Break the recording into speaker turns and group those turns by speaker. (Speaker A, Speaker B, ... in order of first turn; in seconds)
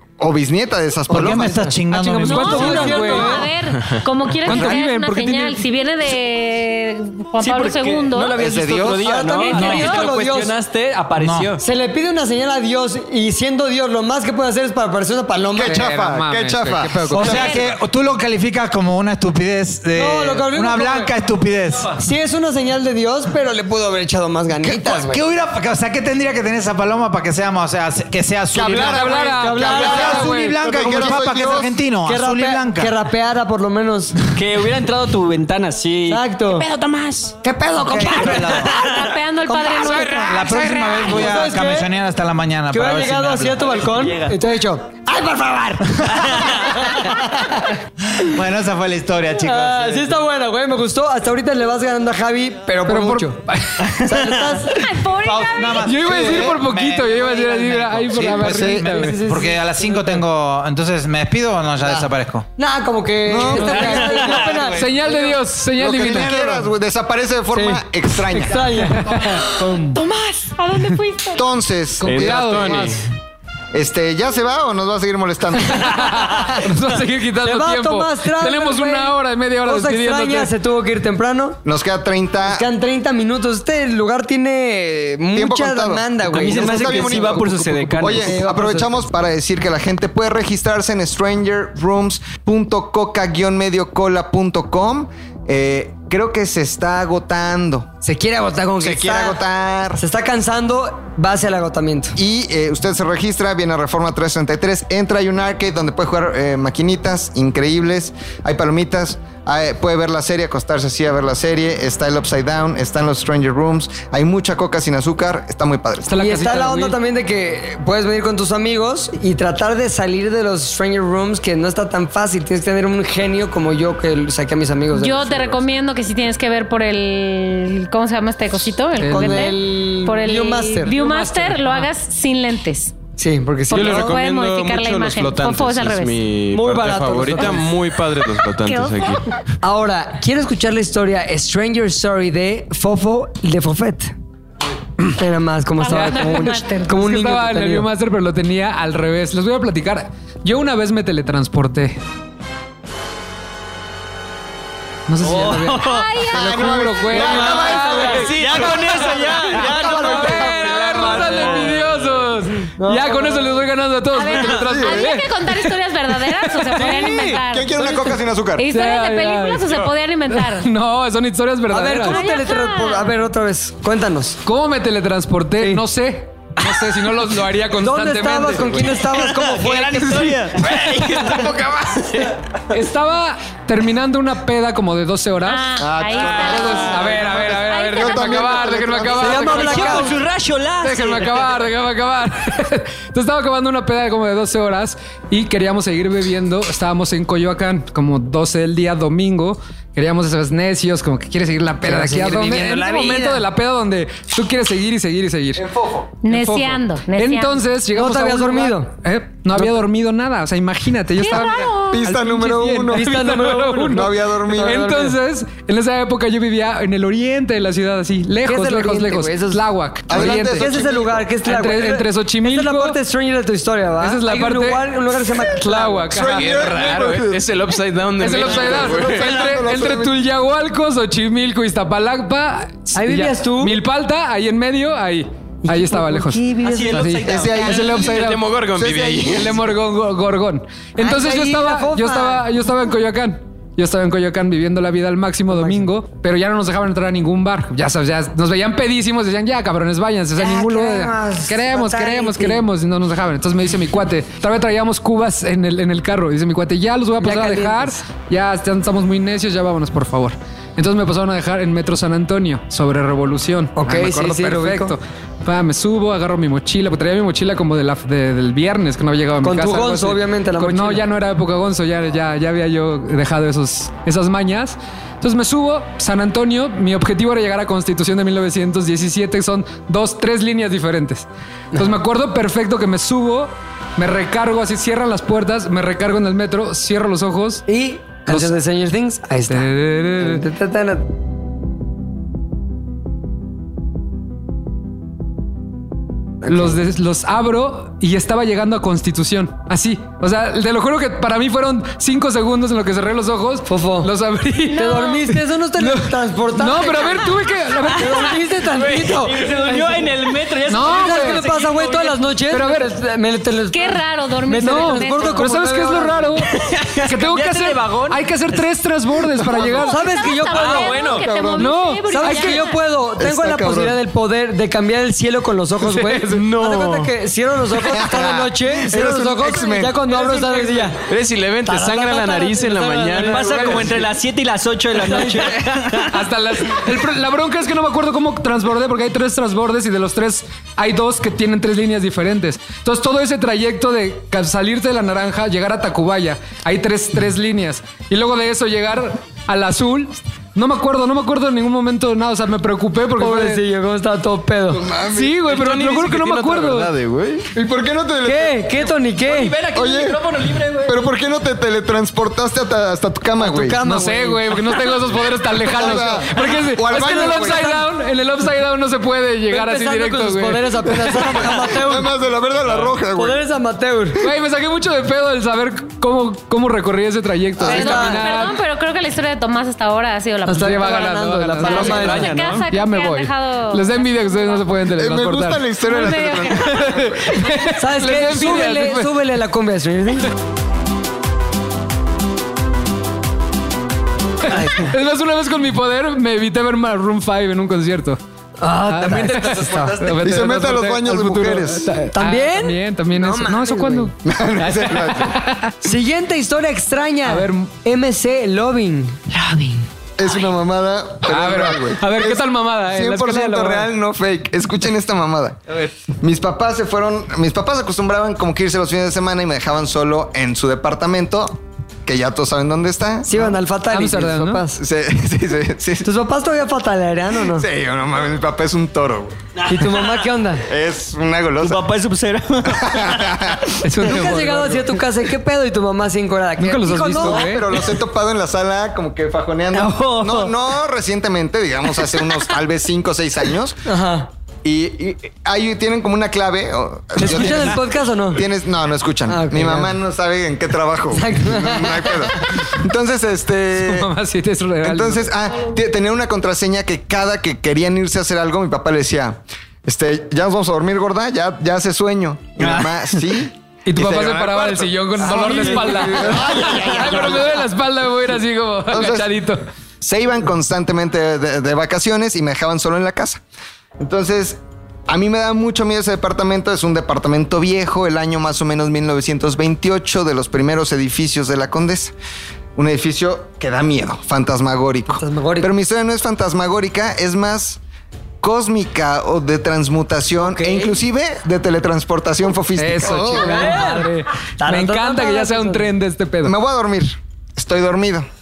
Speaker A: 0.2-1.7, 8.3-9.0, 15.5-17.7, 28.5-31.8, 56.1-56.5, 58.5-58.8, 63.3-64.8, 65.8-68.8, 71.3-72.9, 73.7-76.3, 81.7-82.7, 85.3-97.9, 98.8-100.0, 102.2-116.1, 156.3-161.3, 164.6-165.1, 167.4-168.7, 185.8-189.8, 205.7-206.1, 211.8-213.1, 213.9-214.9, 220.1-221.2, 226.1-227.4, 228.4-230.2, 237.2-239.6, 321.2-321.6, 323.2-324.0, 327.8-330.2, 357.6-358.9, 359.7-360.2, 360.9-363.8, 365.6-367.8, 371.0-373.4, 384.9-387.2, 400.2-401.9, 404.2-405.4, 410.2-415.6, 416.2-423.5, 424.8-426.1, 427.5-429.4, 430.7-431.9, 432.7-433.7, 437.2-443.8, 444.6-454.1, 454.8-467.7, 468.9-469.3, 470.0-473.4, 474.0-482.1, 482.8-487.8, 488.4-493.8, 496.4-498.3
Speaker B: 1.1-3.0, 4.5-4.8, 9.6-9.9, 11.2-11.5, 17.1-22.0, 24.6-32.9, 37.8-38.8, 40.3-43.7, 48.1-50.2, 55.2-62.5, 63.6-64.9
Speaker C: 1.1-3.5, 9.0-10.5, 11.6-15.9, 19.9-21.1, 22.0-25.2, 29.4-30.3, 32.0-34.2, 36.1-36.7, 37.4-41.9, 42.7-47.7, 49.4-53.4, 54.0-54.8, 58.7-60.2, 61.8-65.4, 67.5-69.9, 77.4-81.6, 82.5-88.9, 98.0-99.4, 100.0-102.2, 116.1-125.6, 129.0-131.0, 133.2-134.2, 136.5-137.7, 139.6-144.1, 145.1-147.9, 157.7-158.2, 159.2-161.6, 162.8-163.6, 171.7-174.4, 177.8-180.5, 189.2-190.2, 201.8-203.3, 207.9-208.9, 212.9-215.2, 218.4-226.2, 232.9-233.8, 235.6-237.2, 241.0-242.5, 245.5-245.9, 250.4-252.6, 257.2-258.0, 263.8-264.9, 269.4-271.0, 287.7-291.1, 296.5-296.8, 303.7-304.1, 304.7-307.3, 307.9-310.1, 310.7-316.4, 319.8-331.0, 331.7-334.0, 335.0-335.7, 353.2-354.8, 358.2-359.6, 363.4-364.8, 366.9-367.8, 369.5-372.1, 373.1-374.2, 377.6-378.3, 380.5-382.3, 387.7-390.3, 398.6-400.0, 402.1-404.1, 405.8-409.2, 423.2-424.8, 426.0-427.7, 429.7-430.7, 434.0-437.5, 443.9-444.3, 447.2-448.4, 449.3-449.9, 451.1-452.4, 485.1-485.7, 490.4-491.0, 493.3-495.9
Speaker D: 1.9-3.5, 4.4-5.7, 15.6-17.5, 28.8-30.6, 52.9-54.0, 55.8-59.2, 63.6-64.0, 64.8-66.5, 72.0-73.0, 75.8-80.5, 116.1-117.0, 129.0-129.5, 130.9-131.9, 145.9-152.0, 155.1-158.5, 159.2-165.7, 166.4-167.2, 168.7-172.3, 174.4-179.0, 182.7-185.7, 186.3-190.2, 190.8-205.6, 206.3-220.8, 221.4-223.0, 224.0-224.9, 225.5-227.2, 228.2-238.5, 239.2-287.6, 288.3-288.5, 289.5-290.4, 296.5-305.2, 305.8-308.4, 310.7-311.5, 312.5-313.0, 314.6-316.5, 317.1-320.0, 321.6-322.6, 325.8-326.4, 336.1-353.6, 355.0-356.9, 363.8-370.8, 374.2-378.6, 380.6-385.7, 386.8-389.1, 394.5-398.2, 398.9-405.7, 407.2-407.7, 409.4-409.7, 411.2-413.9, 423.9-424.6, 433.8-435.0, 436.6-437.7, 453.8-455.4, 463.9-469.6, 492.8-496.6
Speaker E: 2.2-8.4, 9.3-10.1, 17.2-17.7, 38.3-40.7, 54.7-56.0, 69.9-71.5, 124.9-132.9, 133.7-136.2, 138.6-139.4, 145.8-147.0, 155.8-156.8, 164.1-168.0, 168.6-170.7, 172.1-173.1, 185.4-188.6, 206.2-207.7, 211.2-212.0, 304.7-305.2, 313.7-315.5, 319.6-322.8, 377.6-381.0, 381.6-384.8, 385.8-386.9
Speaker F: 7.4-11.6, 34.4-36.2, 43.7-44.4, 86.3-88.6, 155.2-156.1, 157.1-161.9, 166.9-167.3, 179.1-182.3, 189.3-191.5, 236.6-238.0, 308.7-312.2, 316.5-318.7, 320.4-321.3, 333.1-336.2, 359.2-361.0, 381.9-382.7, 399.6-400.2, 429.7-429.9, 431.6-433.4, 439.7-440.5
Speaker G: 72.0-73.0, 133.7-139.3, 226.3-229.4, 237.5-239.6, 326.7-326.9, 331.0-334.0, 354.8-357.5